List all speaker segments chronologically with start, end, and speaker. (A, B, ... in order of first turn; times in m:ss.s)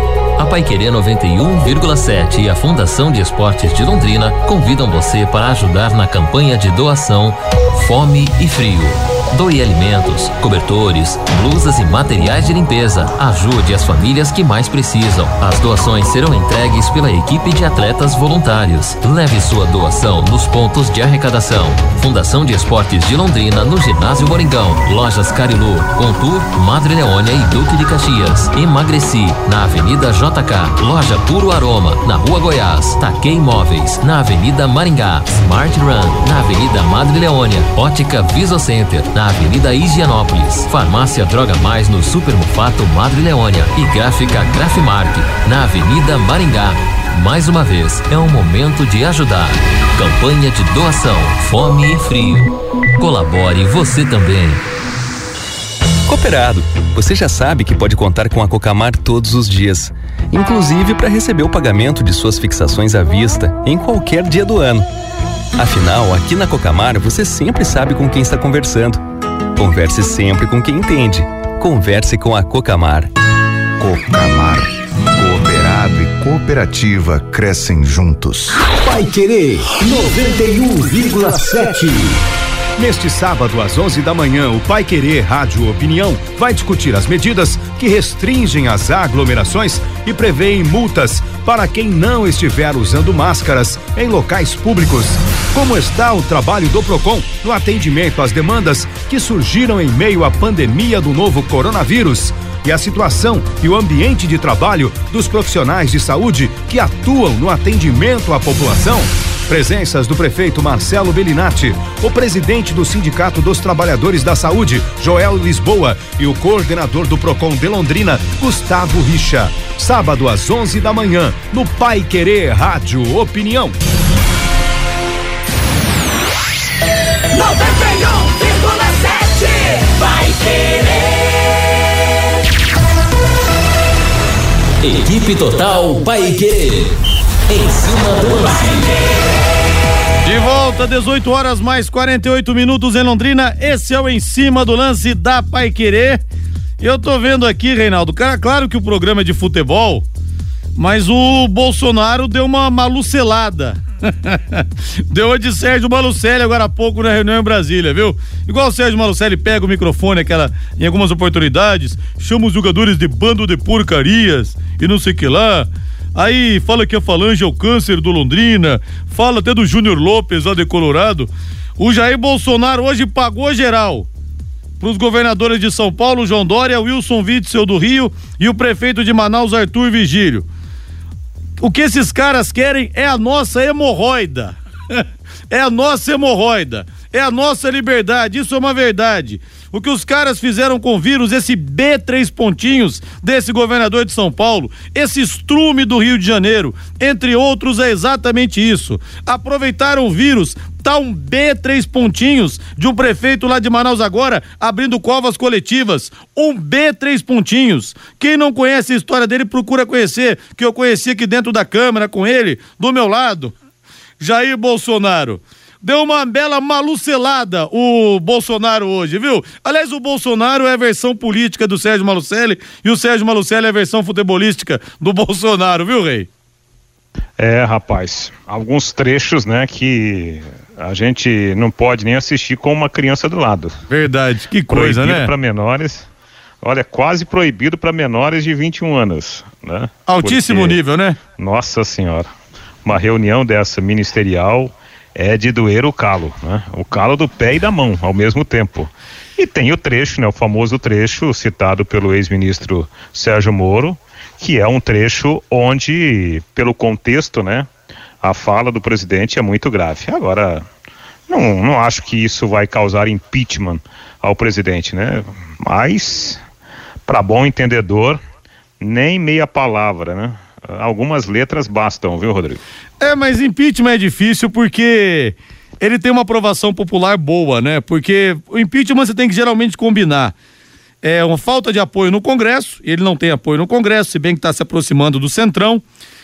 0:00.4-0:54.6 A
0:56.1-1:04.9 B
1:05.6-1:09.0 B
1:09.6-1:13.1 B
1:13.8-1:18.7 C
1:18.7-1:22.2 D
1:22.8-2:03.8 E
2:07.4-2:11.0 A
2:14.8-2:17.0 A
2:17.5-2:19.0 A
2:20.2-2:26.2 F
2:26.8-2:30.0 F
2:30.8-2:54.1 F
2:54.8-3:00.4 F
3:01.6-3:33.5 F
3:34.2-3:46.3 F
3:47.4-3:53.8 G
3:53.9-3:55.3 F
3:54.7-3:56.1 G
3:56.6-4:00.8 G
4:00.1-4:01.2 F
4:01.4-4:02.3 G
4:02.8-4:17.7 G
4:18.2-4:20.7 G
4:21.3-4:26.4 G
4:27.1-4:28.2 G
4:28.8-4:32.6 G
4:33.0-4:40.3 F
4:41.0-4:45.8 F